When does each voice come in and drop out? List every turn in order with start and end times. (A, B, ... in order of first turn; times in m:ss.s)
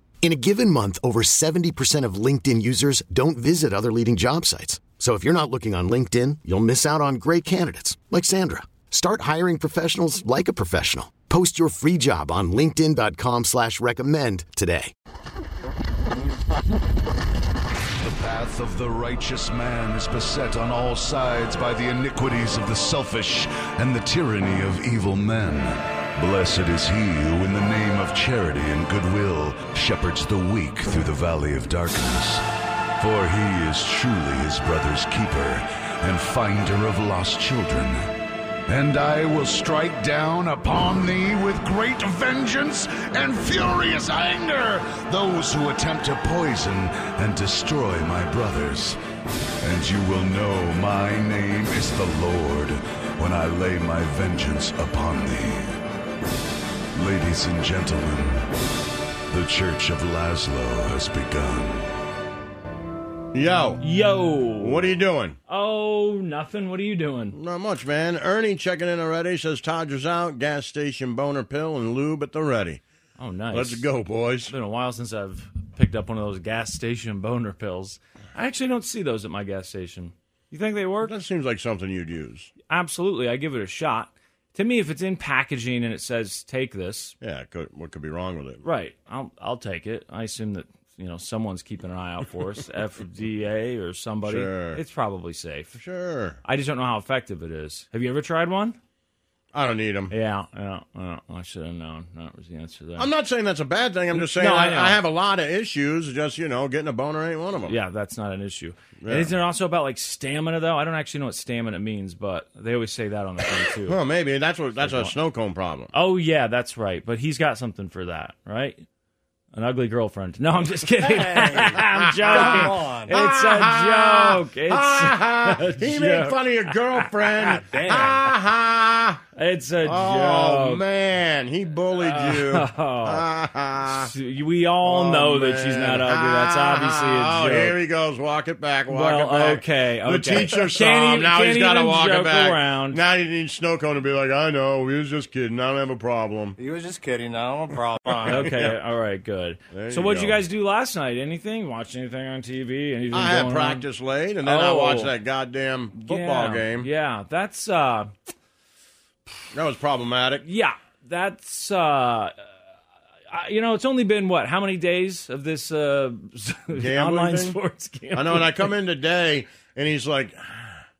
0:00.2-0:14.9 A
0:18.0-0:32.4 B
0:33.0-0:38.0 B
0:38.7-0:49.0 B
0:49.6-0:55.8 B
0:56.9-0:58.4 B
0:59.3-1:01.9 B
1:03.3-1:03.8 C
1:03.8-1:04.9 D
1:04.6-1:05.4 C
1:05.5-1:07.3 D
1:07.3-1:12.8 C
1:13.2-1:13.9 D
1:13.5-1:14.5 C
1:14.4-1:21.1 D
1:21.0-1:22.5 C
1:22.7-1:27.1 D
1:27.2-1:28.6 C
1:28.6-1:35.8 D
1:34.2-1:34.8 C
1:35.7-1:36.4 C
1:36.4-1:38.8 D
1:39.5-1:40.1 C
1:40.1-1:43.1 D
1:43.0-1:47.8 C
1:44.1-1:45.0 D
1:47.6-1:54.0 D
1:49.0-1:49.4 C
1:53.8-1:55.9 C
1:54.8-1:55.2 D
1:55.9-1:58.8 D
1:59.5-2:08.3 D
2:02.2-2:09.2 C
2:02.3-2:03.1 E
2:07.7-2:08.1 E
2:09.3-2:10.8 D
2:09.8-2:14.1 C
2:11.9-2:13.2 D
2:13.8-2:17.8 D
2:14.8-2:26.6 C
2:18.9-2:23.0 D
2:26.6-2:28.3 E
2:28.1-2:28.8 C
2:28.2-2:33.8 D
2:29.7-2:30.4 C
2:33.1-2:36.9 C
2:34.4-2:35.1 D
2:35.9-2:38.1 D
2:39.5-2:40.4 C
2:40.4-2:42.3 D
2:43.3-2:48.7 D
2:46.8-2:47.6 C
2:48.1-2:50.8 C